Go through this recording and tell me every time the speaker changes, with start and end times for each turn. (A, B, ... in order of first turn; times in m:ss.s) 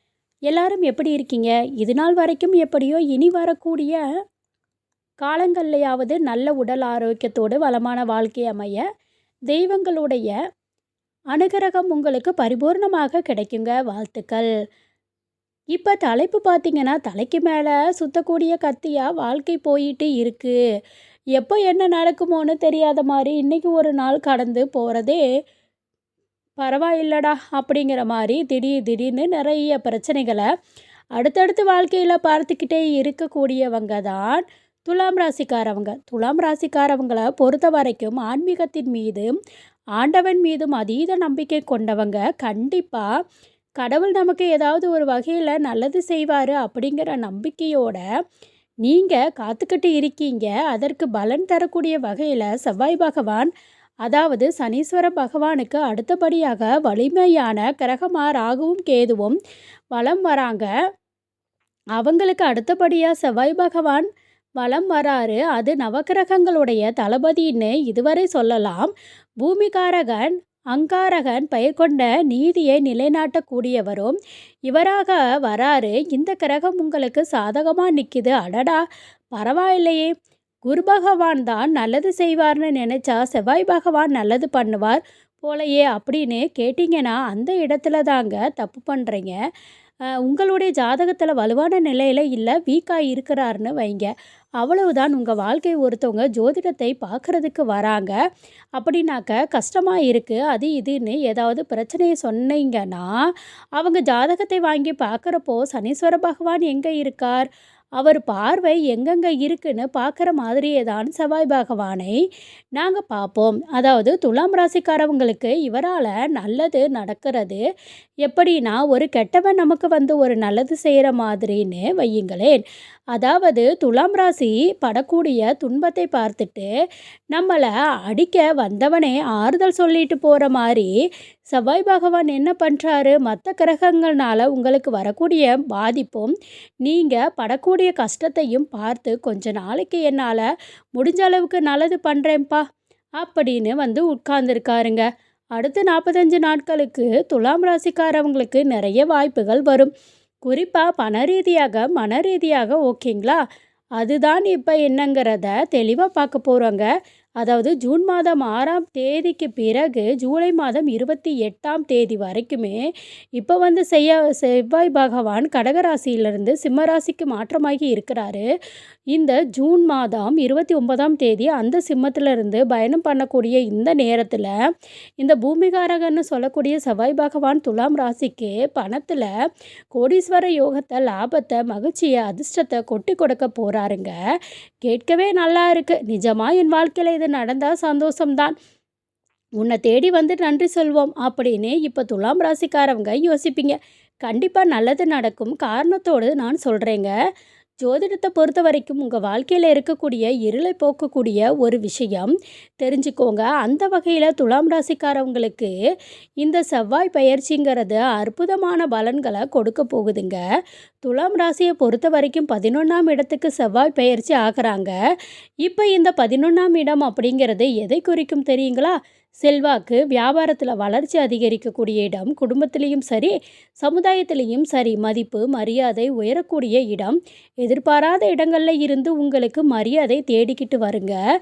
0:00.5-0:04.0 A
0:05.2-0:08.8 A
0:09.5-0:10.4 A
0:11.3-0:14.5 A
0:15.8-0:20.6 A
0:21.4-0:25.2 A
0:26.6-0:30.5 A
0:31.2-0:39.3 A
0:40.0-0:43.1 A
0:43.8-0:48.0 A
0:48.8-0:53.5 A
0:54.0-0:59.4 A
0:59.9-1:00.7 A
1:02.0-1:04.1 A
1:04.6-1:14.2 A
1:14.7-1:20.1 A
1:20.7-1:29.4 A
1:30.3-1:38.2 A
1:38.8-1:43.1 A
1:43.8-1:47.5 A
1:48.0-1:52.2 A
1:52.8-1:57.6 A
1:58.2-2:02.6 A
2:03.2-2:06.7 A
2:07.3-2:10.9 A
2:11.5-2:16.3 A
2:16.8-2:22.6 A
2:23.2-2:25.1 A
2:25.6-2:29.9 A
2:30.5-2:33.4 A
2:34.0-2:36.9 A
2:37.4-2:42.8 A
2:43.4-2:48.5 A
2:49.1-2:54.5 A
2:55.2-2:59.3 A
2:59.9-3:04.2 A
3:04.8-3:08.6 A
3:09.6-3:17.1 A
3:17.8-3:25.7 A
3:26.4-3:30.4 A
3:31.0-3:34.9 A
3:35.6-3:51.2 A